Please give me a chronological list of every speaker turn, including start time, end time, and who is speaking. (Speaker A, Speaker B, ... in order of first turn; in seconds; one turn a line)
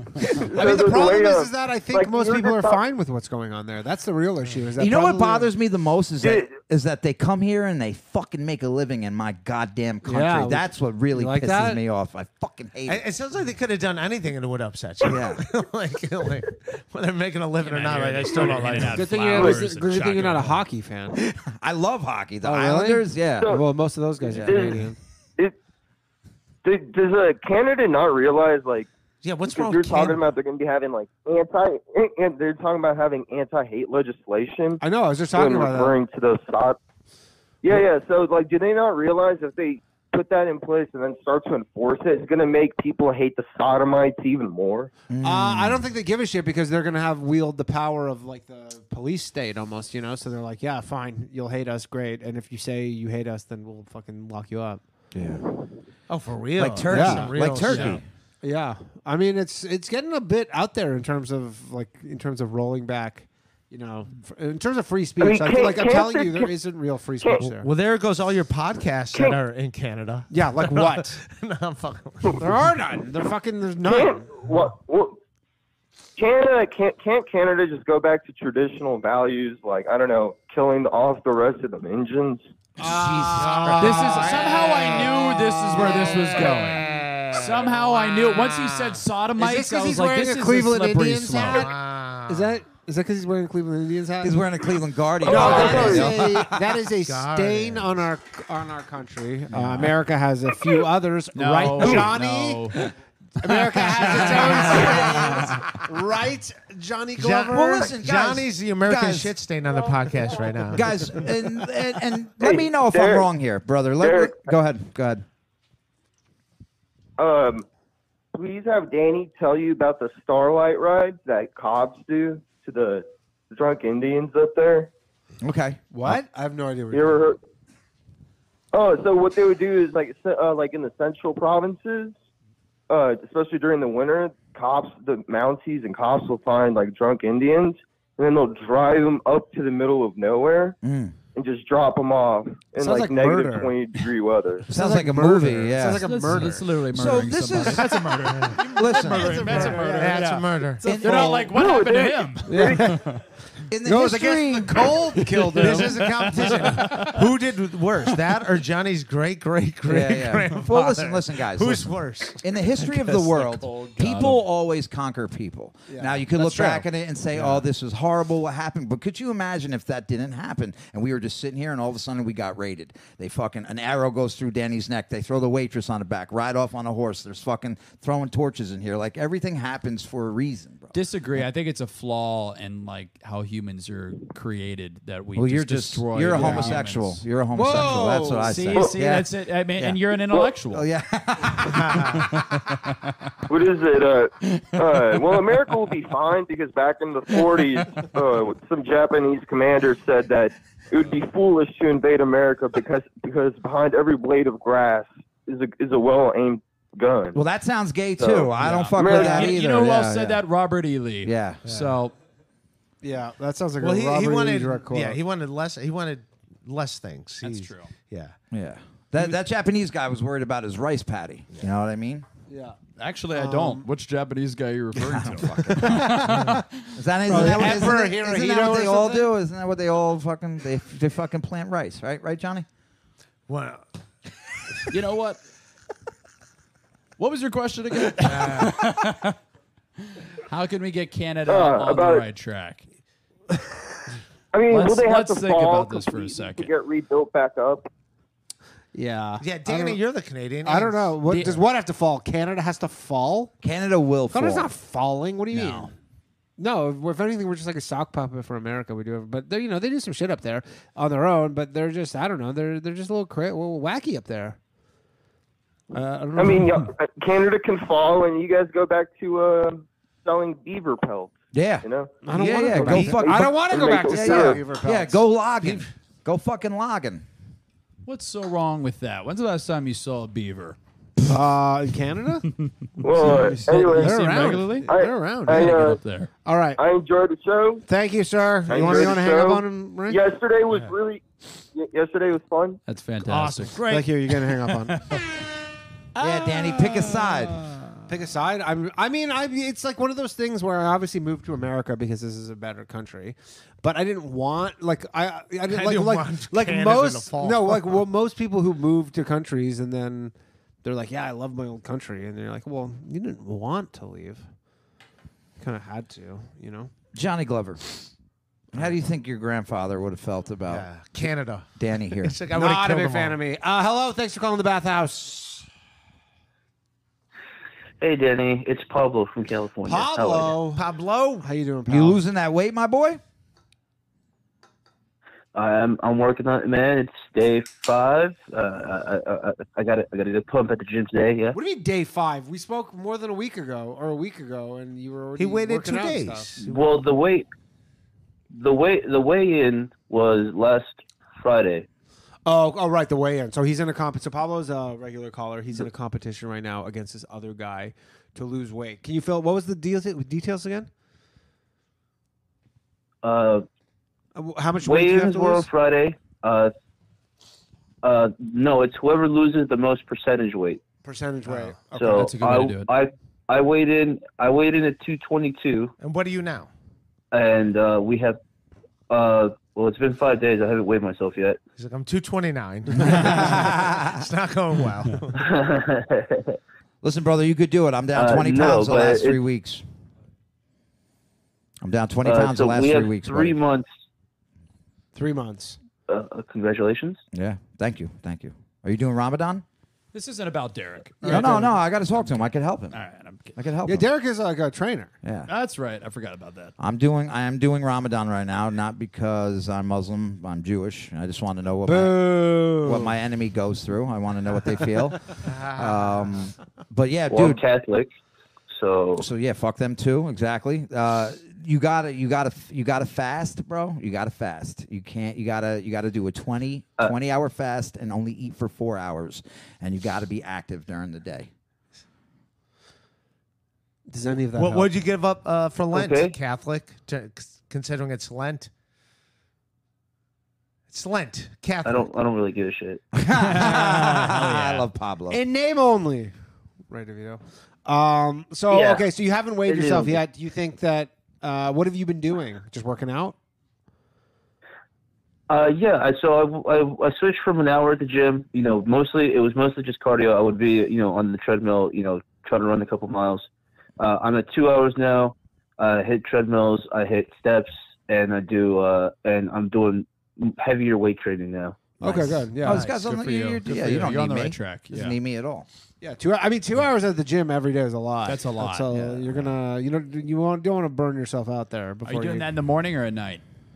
Speaker A: 0.2-2.8
Speaker B: 0.5-5.5
Speaker C: 4.8-13.0
Speaker A: 6.2-6.5
Speaker B: 10.0-11.8
Speaker D: 12.9-19.1
Speaker C: 15.0-15.4
Speaker E: 17.6-20.6
Speaker B: 18.8-21.2
Speaker C: 21.4-23.6
Speaker B: 22.4-25.0
Speaker A: 23.4-23.6
Speaker A: 24.3-24.8
Speaker C: 24.3-24.7
Speaker A: 26.6-28.9
Speaker D: 29.2-30.2
Speaker A: 29.4-34.8
Speaker B: 34.8-35.9
Speaker A: 35.3-36.8
Speaker A: 37.6-44.9
Speaker C: 45.1-45.8
Speaker B: 45.2-54.8
Speaker C: 55.1-55.5
Speaker D: 56.1-58.0
Speaker C: 56.6-58.0
Speaker B: 56.9-57.9
Speaker E: 57.7-58.0
Speaker B: 58.4-67.7
Speaker A: 65.2-66.5
Speaker D: 67.4-72.3
Speaker B: 70.3-71.2
Speaker B: 72.4-74.3
Speaker A: 73.8-75.2
Speaker A: 76.2-82.5
Speaker C: 82.8-84.2
Speaker B: 82.8-86.5
Speaker D: 83.3-89.0
Speaker E: 83.8-91.7
Speaker B: 89.4-91.7
Speaker D: 91.5-92.5
Speaker B: 92.3-94.4
Speaker C: 94.2-96.5
Speaker B: 95.2-102.8
Speaker A: 95.2-96.2
Speaker D: 95.4-95.8
Speaker D: 97.0-98.0
Speaker C: 99.5-99.9
Speaker E: 101.3-102.8
Speaker B: 103.4-107.9
Speaker E: 103.5-104.7
Speaker C: 104.0-105.5
Speaker D: 104.5-105.2
Speaker D: 107.2-111.2
Speaker C: 107.5-109.3
Speaker C: 110.7-115.2
Speaker A: 112.4-113.3
Speaker A: 114.0-114.5
Speaker A: 117.2-117.6
Speaker A: 118.3-124.9
Speaker C: 125.4-126.2
Speaker B: 125.9-127.2
Speaker A: 126.9-127.4
Speaker A: 128.7-132.1
Speaker A: 132.9-140.8
Speaker C: 140.8-141.2
Speaker A: 141.3-144.7
Speaker B: 142.8-143.7
Speaker C: 144.7-146.1
Speaker B: 144.7-146.8
Speaker E: 146.0-153.2
Speaker C: 146.9-148.0
Speaker D: 148.3-148.6
Speaker C: 148.6-149.7
Speaker B: 148.9-150.3
Speaker D: 149.7-150.9
Speaker C: 150.8-151.5
Speaker A: 151.5-152.9
Speaker B: 152.5-153.1
Speaker C: 153.7-155.0
Speaker B: 153.8-157.0
Speaker E: 155.3-157.2
Speaker D: 155.6-162.6
Speaker C: 159.8-181.4
Speaker B: 163.8-164.3
Speaker E: 164.0-164.3
Speaker B: 165.9-166.9
Speaker E: 180.9-187.2
Speaker C: 185.3-190.0
Speaker B: 186.3-186.8
Speaker B: 187.5-188.8
Speaker E: 188.4-190.9
Speaker C: 190.7-192.2
Speaker D: 191.6-192.2
Speaker A: 193.5-207.4
Speaker C: 207.3-210.4
Speaker A: 208.2-209.4
Speaker E: 208.6-212.1
Speaker B: 209.0-209.9
Speaker C: 211.2-211.7
Speaker D: 211.6-211.9
Speaker B: 213.0-215.2
Speaker D: 213.8-218.3
Speaker E: 217.4-217.9
Speaker C: 218.5-222.2
Speaker B: 222.5-222.8
Speaker E: 223.0-226.6
Speaker B: 223.3-223.9
Speaker C: 225.0-232.7
Speaker B: 225.7-226.5
Speaker B: 227.2-229.3
Speaker D: 233.5-233.8
Speaker E: 234.9-235.4
Speaker E: 237.2-239.3
Speaker D: 238.2-238.8
Speaker E: 240.5-242.8
Speaker A: 241.5-242.2
Speaker A: 244.5-247.9
Speaker E: 244.7-246.7
Speaker B: 248.9-250.0
Speaker D: 249.4-251.2
Speaker B: 250.6-253.5
Speaker E: 251.2-251.6
Speaker C: 253.6-254.7
Speaker B: 254.3-255.9
Speaker C: 255.5-255.9
Speaker B: 256.6-264.6
Speaker B: 265.9-266.8
Speaker A: 266.4-272.1
Speaker C: 271.5-277.2
Speaker B: 272.2-275.2
Speaker D: 272.7-273.2
Speaker A: 273.2-274.6
Speaker E: 278.0-280.8
Speaker B: 281.3-282.5
Speaker A: 283.0-284.2
Speaker B: 283.2-285.8
Speaker E: 283.7-284.9
Speaker A: 284.8-286.0
Speaker E: 285.5-286.3
Speaker B: 286.4-286.8
Speaker A: 286.8-287.8
Speaker B: 287.9-290.2
Speaker A: 288.7-291.2
Speaker A: 291.7-292.8
Speaker E: 292.9-293.9
Speaker D: 293.2-294.2
Speaker B: 293.9-295.0
Speaker E: 294.9-295.2
Speaker E: 296.1-297.5
Speaker C: 296.2-297.6
Speaker B: 298.1-314.4
Speaker D: 305.7-308.0
Speaker B: 315.6-316.9
Speaker C: 317.1-317.9
Speaker C: 318.7-321.2
Speaker D: 320.7-323.4
Speaker C: 321.8-322.4
Speaker B: 322.5-325.6
Speaker F: 328.0-330.6
Speaker B: 329.8-330.8
Speaker D: 330.7-331.5
Speaker B: 331.4-332.2
Speaker C: 331.9-333.2
Speaker F: 335.5-341.6
Speaker B: 341.5-346.5
Speaker D: 345.4-346.9
Speaker F: 346.6-347.5
Speaker F: 348.5-351.9
Speaker B: 352.4-360.9
Speaker F: 363.2-363.6
Speaker B: 364.4-365.7
Speaker F: 364.8-366.7
Speaker F: 368.0-370.8
Speaker B: 371.0-372.4
Speaker F: 371.9-375.9
Speaker E: 372.1-372.9
Speaker D: 376.0-376.7
Speaker F: 377.3-378.4
Speaker F: 379.1-381.6
Speaker D: 381.8-385.4
Speaker C: 383.2-384.1
Speaker F: 385.4-386.6
Speaker C: 387.0-389.8
Speaker F: 388.1-389.4
Speaker C: 391.8-393.6
Speaker F: 392.2-393.9
Speaker B: 395.1-395.8
Speaker F: 396.1-397.2
Speaker C: 397.3-399.6
Speaker E: 400.1-403.5
Speaker B: 401.2-401.8
Speaker C: 401.2-403.0
Speaker C: 403.5-404.1
Speaker B: 403.9-405.1
Speaker C: 405.2-405.5
Speaker E: 405.5-406.7
Speaker C: 406.8-417.6
Speaker B: 411.9-413.1
Speaker D: 415.4-416.2
Speaker F: 417.3-418.1
Speaker F: 418.7-419.3
Speaker C: 419.2-431.5
Speaker B: 434.1-435.0
Speaker D: 434.5-438.7
Speaker F: 435.9-436.4
Speaker D: 440.9-442.1
Speaker F: 441.8-443.0
Speaker C: 443.1-445.4
Speaker E: 443.3-444.9
Speaker B: 445.3-446.3
Speaker B: 446.9-453.4
Speaker F: 448.7-449.1
Speaker F: 449.6-450.2
Speaker F: 455.5-463.5
Speaker F: 464.0-471.9
Speaker B: 472.0-472.9
Speaker C: 472.0-475.7
Speaker E: 472.6-475.1
Speaker B: 476.0-482.5
Speaker E: 478.2-479.0
Speaker C: 478.9-479.2
Speaker E: 482.0-483.4